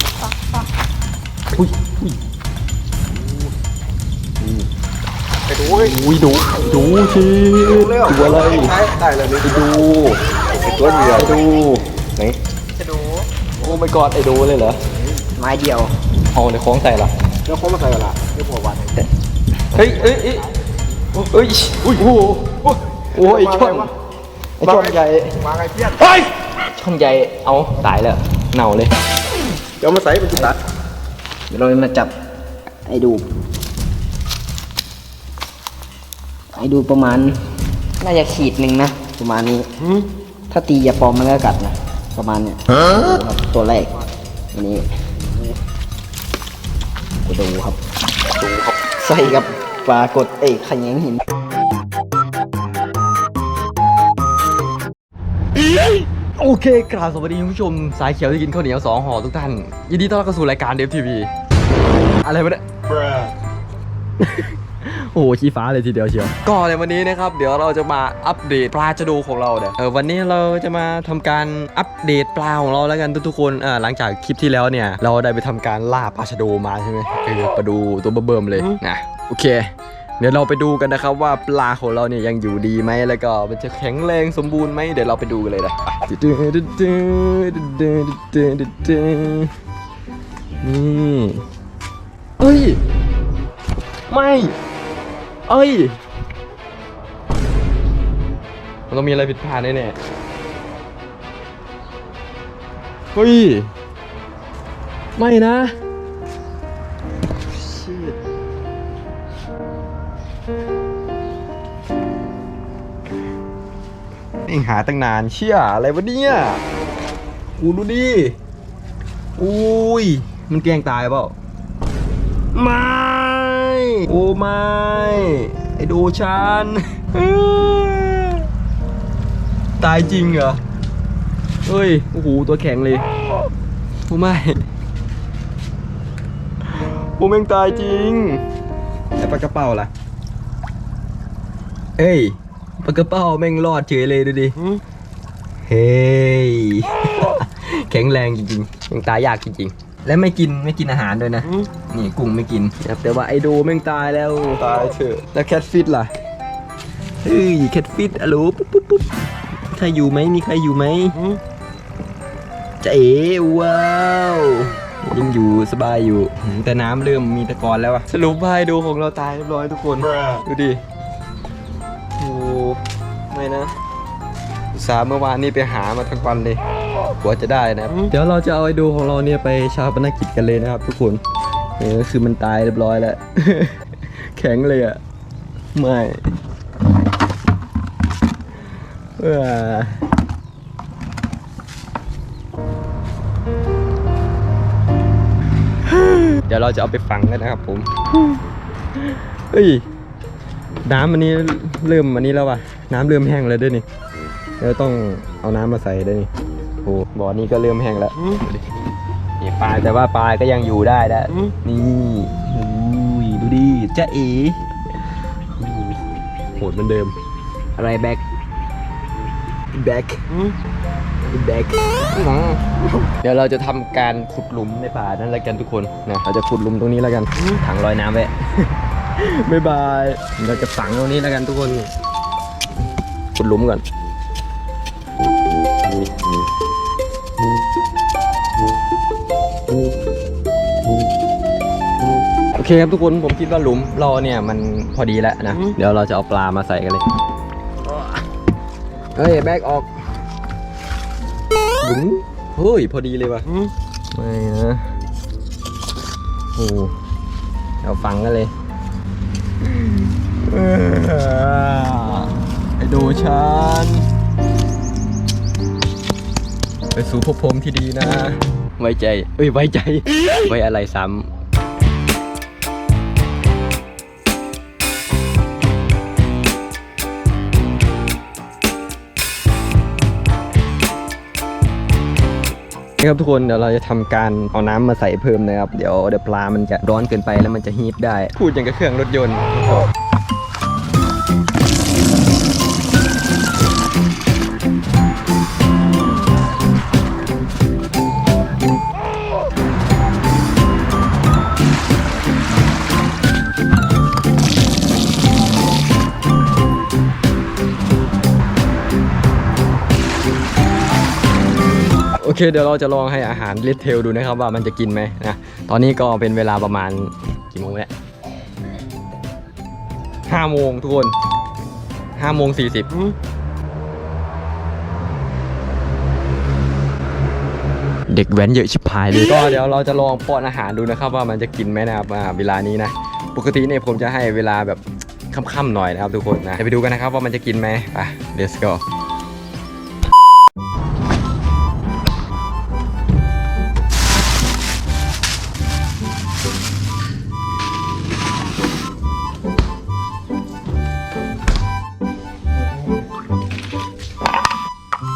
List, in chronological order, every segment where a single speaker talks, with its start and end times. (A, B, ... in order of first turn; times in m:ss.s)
0:01.5-0:02.2 A
0:04.4-0:04.6 A
0:05.6-0:08.8 A
0:08.0-0:09.5 B
0:09.4-0:10.2 A
0:10.8-0:12.4 A
0:13.6-0:14.8 A
0:15.4-0:15.9 C
0:16.3-0:17.1 A
0:17.5-0:18.9 C
0:17.6-0:18.7 B
0:19.7-0:20.4 A
0:21.1-0:23.9 A
0:24.6-0:25.4 A
0:25.4-0:26.0 B
0:26.6-0:28.9 A
0:29.8-0:30.5 B
0:29.9-0:30.5 C
0:31.5-0:32.1 C
0:32.8-0:33.2 C
0:36.5-0:37.4 C
0:38.0-0:39.7 C
0:40.5-0:44.0 C
0:44.5-0:45.5 C
0:47.2-0:47.8 C
0:48.7-0:51.2 C
0:56.3-1:01.3 A
1:02.2-1:03.3 A
1:04.2-1:29.5 A
1:30.6-1:31.4 A
1:32.4-1:32.8 A
1:34.1-1:34.5 A
1:35.5-1:36.0 A
1:38.9-1:40.0 A
1:43.1-1:43.7 A
1:45.2-1:45.7 A
1:47.5-1:48.2 A
1:54.4-1:56.6 A
1:57.6-1:58.4 A
1:59.4-2:01.3 A
2:02.5-2:08.5 A
2:09.8-2:10.6 A
2:11.6-2:13.1 A
2:14.1-2:14.6 A
2:16.6-2:18.4 A
2:19.2-2:19.9 A
2:22.0-2:24.6 A
2:25.6-2:36.1 A
2:37.2-2:39.1 A
2:39.7-2:41.3 A
2:42.8-2:50.8 A
2:52.2-2:53.7 A
2:54.7-2:56.6 A
2:57.2-3:01.2 A
3:01.8-3:05.0 A
3:05.7-3:06.3 A
3:09.2-3:10.0 A
3:15.9-3:18.4 A
3:19.0-3:19.8 A
3:20.8-3:23.8 A
3:24.6-3:26.3 A
3:26.8-3:28.7 A
3:29.4-3:34.6 A
3:35.6-3:36.0 A
3:36.5-3:37.1 A
3:37.8-3:38.2 A
3:39.7-3:40.3 A
3:41.3-3:51.9 A
3:53.3-3:53.8 A
4:02.5-4:07.0 A
4:09.1-4:09.9 A
4:11.8-4:13.5 A
4:14.1-4:14.9 A
4:16.5-4:16.9 A
4:17.8-4:18.5 A
4:19.6-4:24.0 A
4:26.9-4:31.3 A
4:43.0-4:49.9 A
5:12.2-5:17.9 A
5:20.3-5:21.1 A
5:22.2-5:23.0 A
5:28.1-5:38.8 A